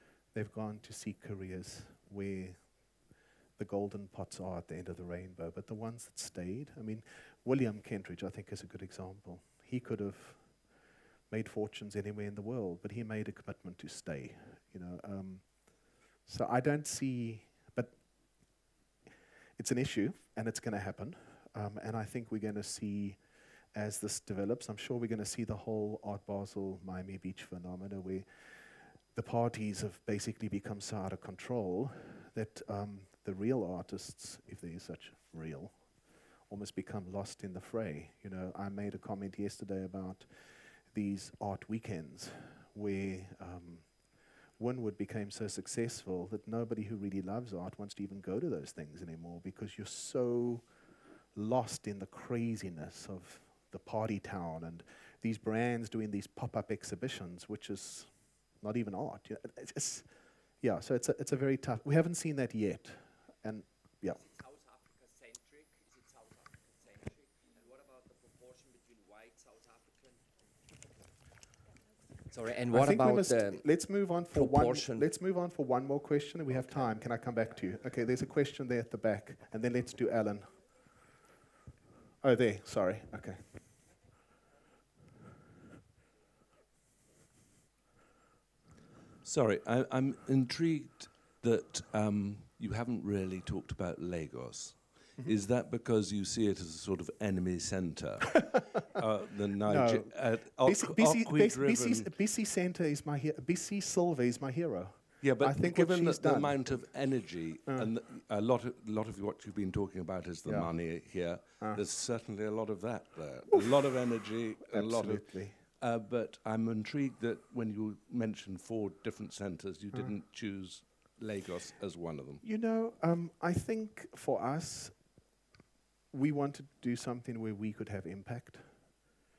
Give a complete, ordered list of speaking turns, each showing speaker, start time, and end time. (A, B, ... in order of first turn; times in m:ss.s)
0:00.3-0:18.6 A
0:19.6-1:04.3 A
1:12.3-1:15.1 B
1:12.7-1:20.6 A
1:22.2-1:23.6 A
1:29.2-1:42.2 C
1:39.6-1:47.9 A
1:45.2-2:02.4 C
1:50.4-1:51.8 A
1:54.7-1:55.6 A
2:02.4-2:05.2 A
2:06.1-2:09.0 A